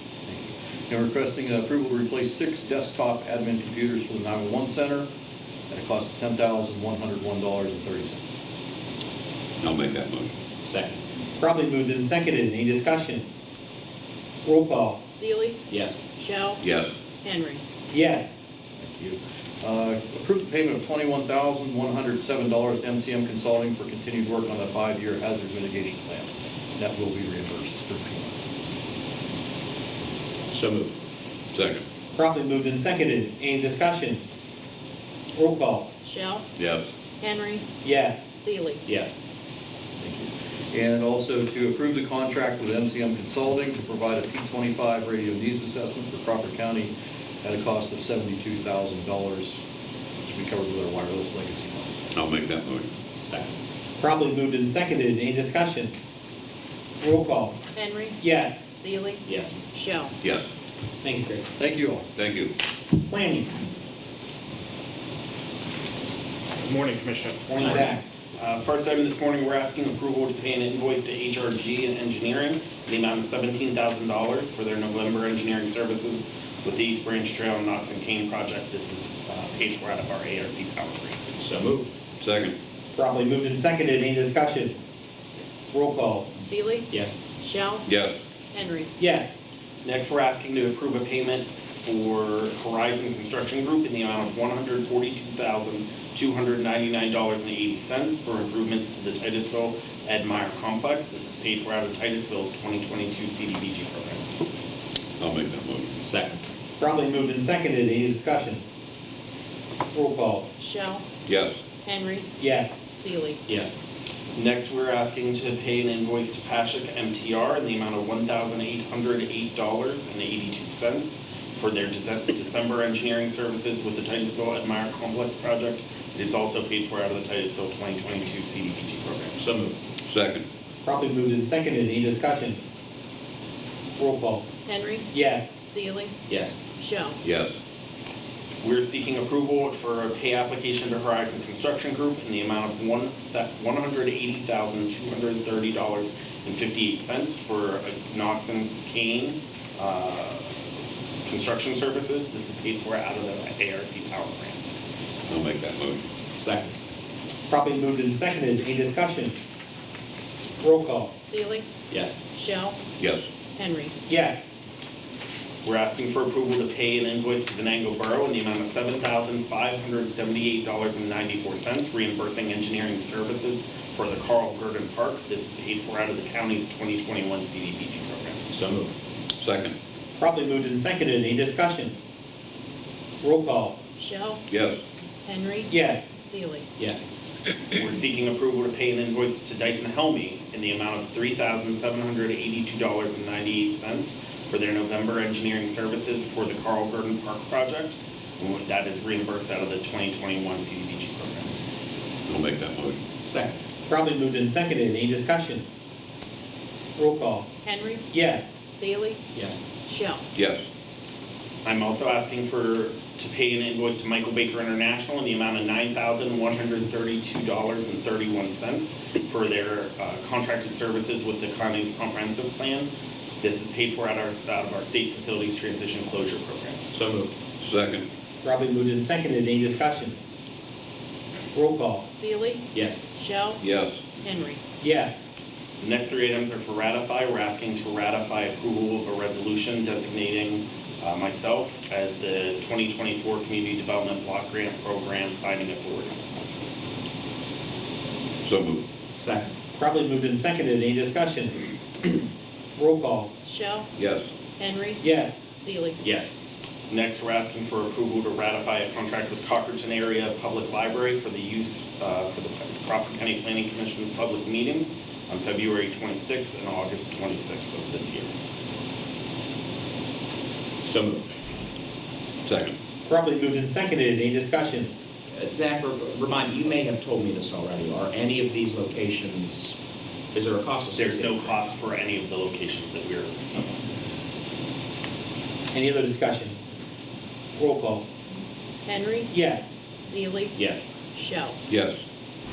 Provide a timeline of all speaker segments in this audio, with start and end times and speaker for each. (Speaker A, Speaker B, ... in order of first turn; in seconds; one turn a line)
Speaker A: 0.3-5.1
Speaker A: 5.7-8.4
Speaker B: 9.6-10.3
Speaker C: 10.6-11.0
Speaker D: 11.4-13.2
Speaker D: 14.4-15.0
Speaker E: 15.1-16.6
Speaker C: 15.7-16.0
Speaker B: 16.6-17.0
Speaker E: 17.2-17.7
Speaker D: 17.9-18.4
Speaker A: 18.8-28.3
Speaker C: 30.5-30.9
Speaker B: 31.5-31.8
Speaker D: 32.1-34.2
Speaker D: 35.4-35.9
Speaker E: 36.0-36.5
Speaker B: 36.6-36.9
Speaker E: 37.2-37.6
Speaker D: 37.8-38.3
Speaker E: 38.4-38.8
Speaker C: 38.9-39.1
Speaker A: 40.0-46.9
Speaker A: 47.4-49.6
Speaker A: 50.2-52.1
Speaker B: 52.1-52.9
Speaker C: 52.3-52.7
Speaker C: 53.2-53.5
Speaker D: 54.0-55.9
Speaker D: 57.0-57.6
Speaker E: 57.7-60.1
Speaker D: 58.2-58.6
Speaker C: 59.3-59.6
Speaker B: 60.2-60.5
Speaker D: 61.0-61.5
Speaker A: 61.6-62.1
Speaker B: 62.2-62.5
Speaker D: 63.1-63.5
Speaker F: 66.6-81.2
Speaker D: 67.6-68.0
Speaker C: 81.4-81.9
Speaker B: 82.2-82.5
Speaker D: 83.0-84.7
Speaker D: 85.7-86.3
Speaker E: 86.4-87.9
Speaker C: 86.9-87.2
Speaker B: 87.8-88.2
Speaker E: 88.5-88.9
Speaker D: 89.0-89.3
Speaker F: 89.8-104.2
Speaker B: 105.2-105.9
Speaker C: 106.0-106.4
Speaker D: 106.8-108.6
Speaker D: 109.9-110.5
Speaker E: 110.6-111.0
Speaker B: 111.3-111.6
Speaker E: 111.8-112.3
Speaker D: 112.4-112.8
Speaker E: 112.8-113.4
Speaker C: 113.5-113.7
Speaker F: 114.3-129.4
Speaker C: 129.4-130.4
Speaker D: 130.8-132.6
Speaker D: 134.0-134.4
Speaker E: 134.7-136.2
Speaker D: 135.1-135.5
Speaker C: 136.3-136.6
Speaker E: 136.8-137.2
Speaker B: 137.2-137.6
Speaker F: 138.6-150.5
Speaker F: 151.2-154.6
Speaker C: 155.3-156.7
Speaker D: 157.5-159.3
Speaker D: 160.6-161.1
Speaker E: 161.2-161.7
Speaker C: 161.9-162.2
Speaker E: 162.3-162.8
Speaker B: 163.0-163.3
Speaker E: 163.6-163.9
Speaker D: 164.1-164.5
Speaker F: 165.6-178.4
Speaker C: 178.5-178.9
Speaker B: 179.4-179.7
Speaker D: 180.2-181.9
Speaker D: 183.2-183.8
Speaker E: 184.0-184.4
Speaker B: 184.5-184.8
Speaker E: 185.2-186.7
Speaker D: 185.7-186.1
Speaker F: 187.7-201.5
Speaker B: 202.3-203.0
Speaker C: 203.3-203.5
Speaker D: 203.9-205.6
Speaker D: 207.0-207.5
Speaker E: 207.6-208.1
Speaker D: 208.1-208.6
Speaker E: 208.7-209.2
Speaker C: 209.3-209.6
Speaker E: 209.8-210.2
Speaker B: 210.3-210.7
Speaker F: 211.6-226.9
Speaker C: 226.9-227.9
Speaker B: 227.6-228.1
Speaker D: 228.4-230.1
Speaker D: 231.5-232.0
Speaker E: 232.1-233.6
Speaker C: 232.7-233.0
Speaker B: 233.6-234.0
Speaker E: 234.2-234.6
Speaker D: 234.8-235.2
Speaker F: 235.8-246.2
Speaker B: 248.4-248.8
Speaker C: 249.2-249.5
Speaker D: 249.8-251.6
Speaker D: 252.8-253.3
Speaker E: 253.4-253.9
Speaker B: 254.0-254.3
Speaker E: 254.6-256.0
Speaker D: 255.0-255.4
Speaker C: 256.0-256.3
Speaker F: 256.9-268.3
Speaker C: 270.8-271.3
Speaker B: 272.4-272.8
Speaker D: 273.1-274.9
Speaker C: 275.4-279.8
Speaker C: 280.3-281.6
Speaker F: 280.9-283.8
Speaker D: 285.7-286.5
Speaker D: 287.6-288.0
Speaker E: 288.9-289.3
Speaker D: 289.3-289.8
Speaker E: 290.0-290.6
Speaker C: 290.6-290.8
Speaker E: 291.1-291.6
Speaker B: 291.7-292.1